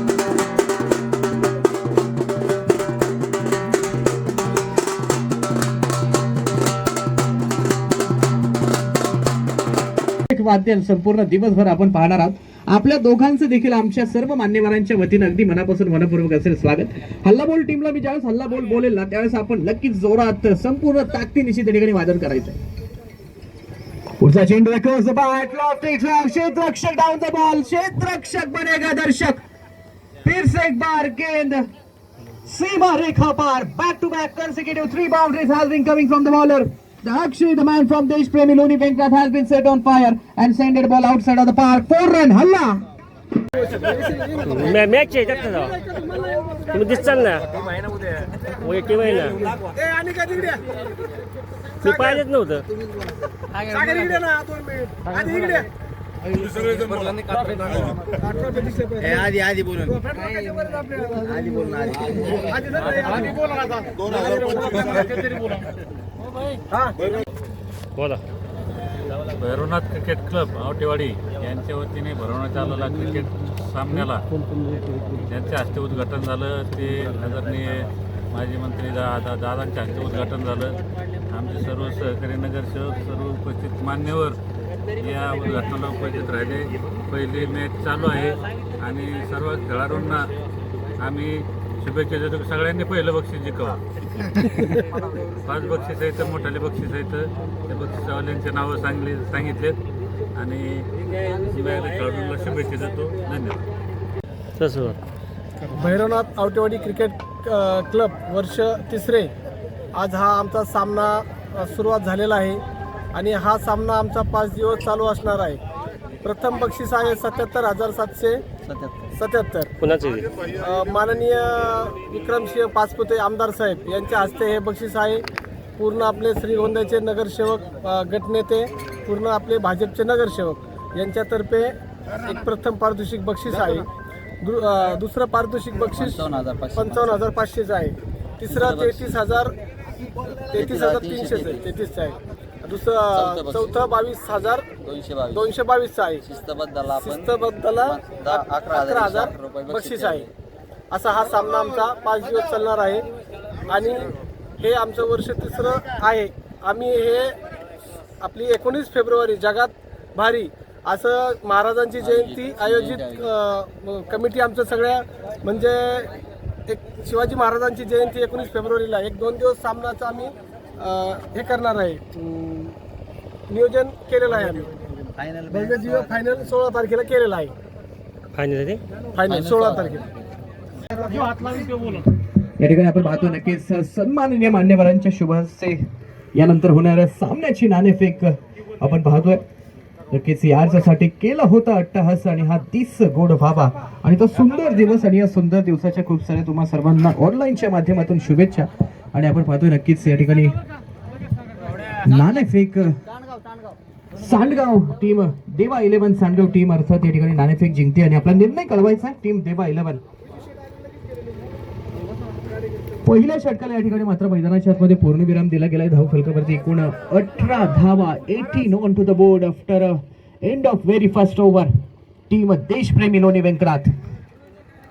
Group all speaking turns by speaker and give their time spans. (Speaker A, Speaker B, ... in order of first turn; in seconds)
Speaker A: 10.3-22.6, 24.2-29.4, 30.2-31.7, 32.5-42.8, 182.6-185.8, 186.3-189.4, 190.1-200.6, 202.0-203.0, 204.2-210.0, 213.0-221.7, 222.3-223.9
Speaker B: 43.5-47.3, 49.5-50.9, 51.8-52.2, 53.6-55.7, 57.7-65.6, 66.7-67.2, 105.7-109.3, 109.9-112.6, 113.1-115.6, 116.2-118.4, 119.2-119.7, 120.5-125.2, 125.8-133.9, 134.4-139.5, 140.5-144.8, 145.3-146.2, 146.9-150.3, 150.9-153.0, 153.7-157.3, 158.2-166.1, 166.7-172.8, 173.5-174.7, 175.4-177.5, 179.1-180.1, 181.0-181.7
Speaker C: 44.4-45.7, 46.7-47.5, 48.3-49.5, 51.8-52.7, 68.0-68.2, 104.6-105.0, 119.8-120.4, 178.3-178.8
Speaker D: 59.4-59.9, 61.4-61.8, 118.7-119.0, 136.1-136.9, 138.7-139.1, 140.6-141.6, 144.9-145.3, 146.3-147.2, 147.9-150.1, 162.2-163.1, 179.3-179.8
Speaker E: 69.3-74.2, 75.2-84.4, 85.0-90.3, 91.0-99.8, 100.3-103.6